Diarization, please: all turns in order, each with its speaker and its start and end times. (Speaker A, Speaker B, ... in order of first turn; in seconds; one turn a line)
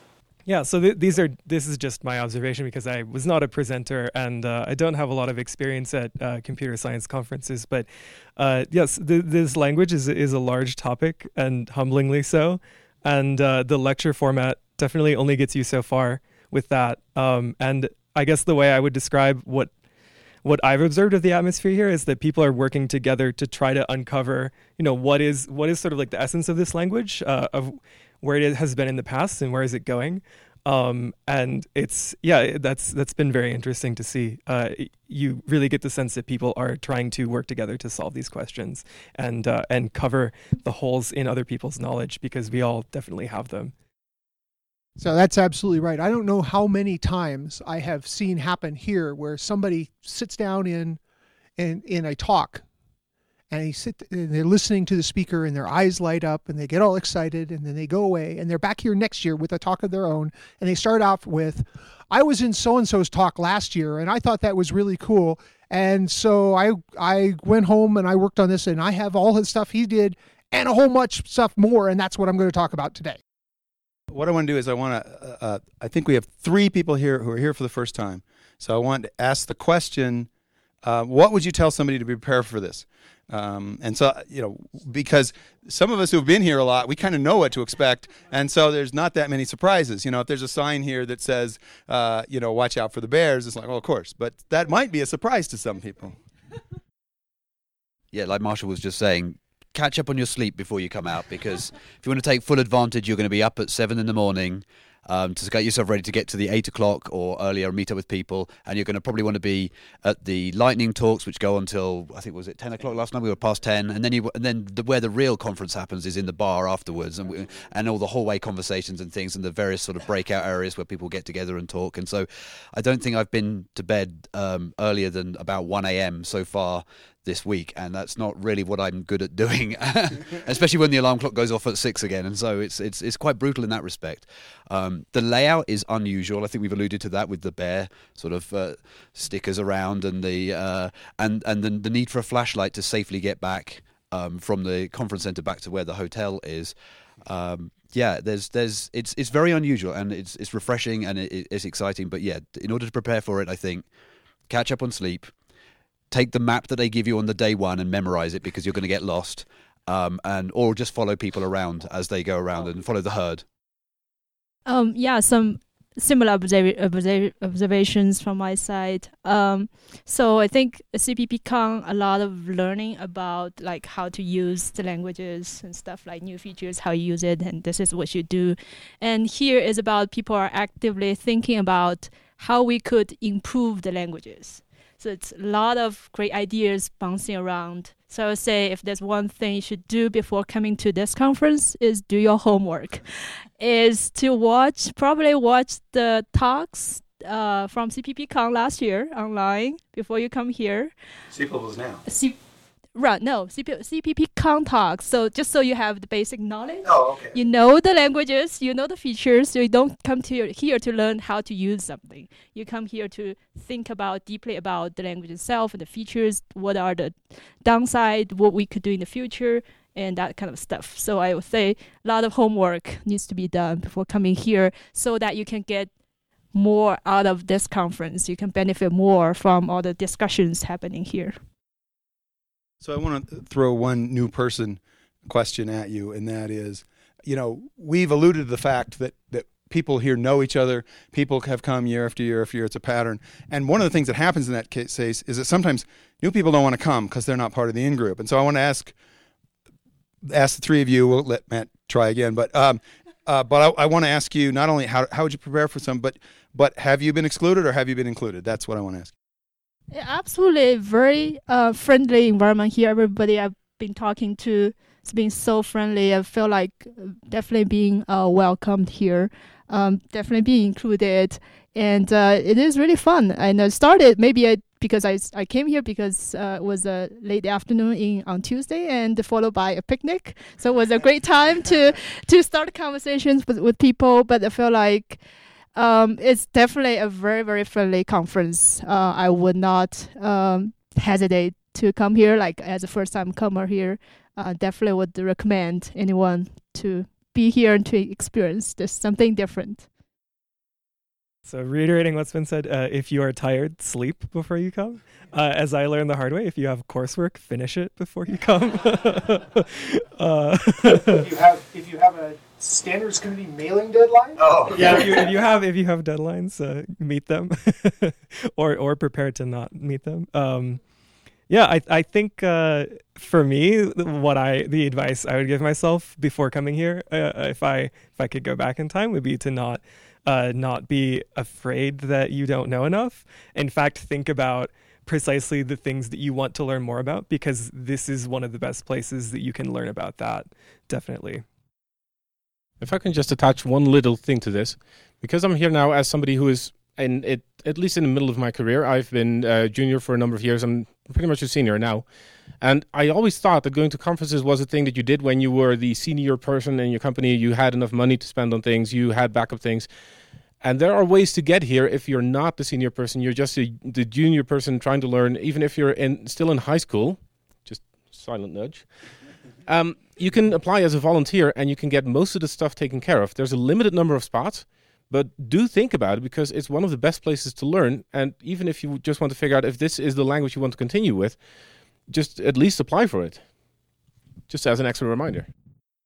Speaker A: 0.5-19.7
Speaker A: 20.4-43.7
Speaker B: 45.0-51.0
Speaker B: 51.6-52.6
Speaker B: 53.5-73.2
Speaker C: 74.1-80.3
Speaker C: 80.8-96.2
Speaker D: 98.1-153.9
Speaker D: 154.5-155.3
Speaker D: 156.1-163.4
Speaker E: 164.7-193.1
Speaker E: 193.6-200.9
Speaker C: 201.3-202.0
Speaker E: 202.1-202.3
Speaker E: 202.9-225.9
Speaker C: 206.8-207.4
Speaker E: 226.5-231.3
Speaker C: 232.8-248.9
Speaker C: 250.2-259.1
Speaker E: 259.9-285.2
Speaker E: 285.7-299.9
Speaker A: 301.5-311.2
Speaker B: 311.1-315.2
Speaker C: 314.4-315.1
Speaker A: 314.7-320.8
Speaker A: 321.5-341.4
Speaker F: 342.8-359.9
Speaker F: 360.6-368.9
Speaker F: 369.7-381.4
Speaker F: 382.1-383.5
Speaker F: 384.5-385.5